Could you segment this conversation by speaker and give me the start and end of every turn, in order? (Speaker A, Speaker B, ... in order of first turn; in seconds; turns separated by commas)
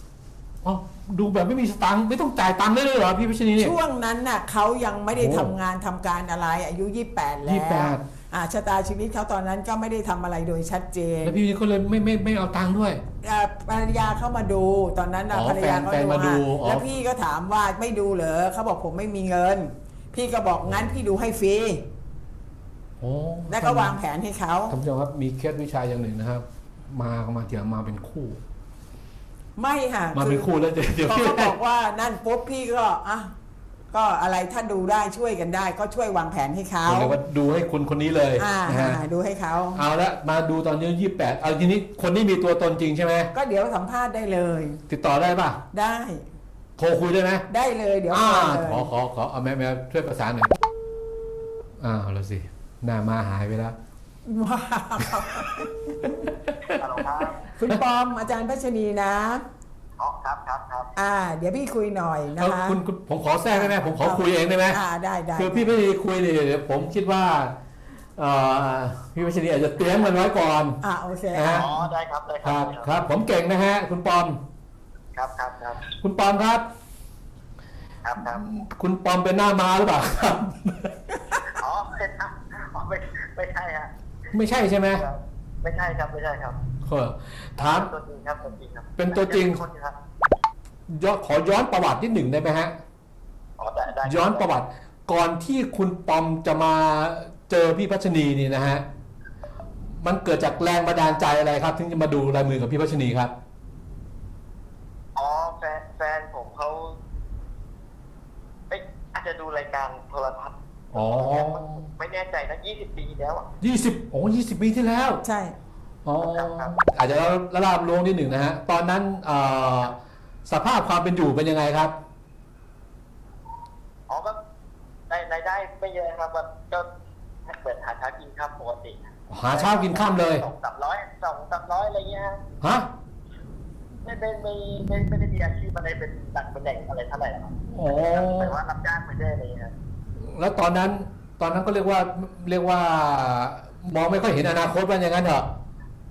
Speaker A: 0.6-3.7, Speaker B: 3.6-11.3, Speaker A: 5.2-5.5, Speaker A: 7.4-8.0, Speaker A: 11.2-13.0, Speaker B: 13.2-21.8, Speaker A: 15.3-16.9, Speaker A: 23.0-23.9, Speaker B: 23.5-24.7, Speaker A: 24.7-28.4, Speaker B: 29.6-33.3, Speaker A: 30.1-31.5, Speaker B: 33.9-37.2, Speaker A: 36.9-39.0, Speaker B: 38.4-39.8, Speaker A: 39.7-43.3, Speaker B: 43.3-44.8, Speaker A: 44.9-45.6, Speaker B: 45.7-46.2, Speaker A: 46.8-47.4, Speaker B: 47.5-48.9, Speaker A: 48.1-50.6, Speaker A: 51.8-53.8, Speaker B: 54.2-56.2, Speaker A: 56.1-57.8, Speaker C: 56.6-57.4, Speaker B: 57.6-59.4, Speaker C: 60.0-60.9, Speaker B: 61.0-62.8, Speaker A: 62.3-64.8, Speaker B: 63.5-65.7, Speaker A: 65.4-67.5, Speaker A: 68.2-70.8, Speaker B: 70.8-71.7, Speaker A: 71.3-71.7, Speaker C: 71.5-72.9, Speaker A: 72.4-74.4, Speaker C: 75.1-75.8, Speaker A: 76.0-76.6, Speaker C: 78.0-78.5, Speaker A: 78.2-80.9, Speaker C: 81.4-83.9, Speaker A: 84.3-85.0, Speaker C: 84.9-86.6, Speaker A: 86.9-87.9, Speaker C: 87.6-90.0, Speaker A: 89.0-89.6, Speaker A: 90.9-92.8, Speaker C: 93.6-94.5, Speaker A: 94.0-98.8, Speaker A: 100.0-103.3, Speaker C: 105.2-107.0, Speaker C: 108.7-113.5, Speaker A: 110.9-111.8, Speaker A: 113.6-115.2, Speaker B: 115.2-115.5, Speaker A: 116.0-121.9, Speaker C: 116.2-116.8, Speaker C: 124.1-124.3, Speaker C: 125.1-126.9, Speaker C: 127.5-132.4, Speaker A: 129.3-130.4, Speaker A: 132.6-132.9, Speaker C: 134.0-139.7, Speaker A: 137.7-138.6, Speaker A: 140.2-145.5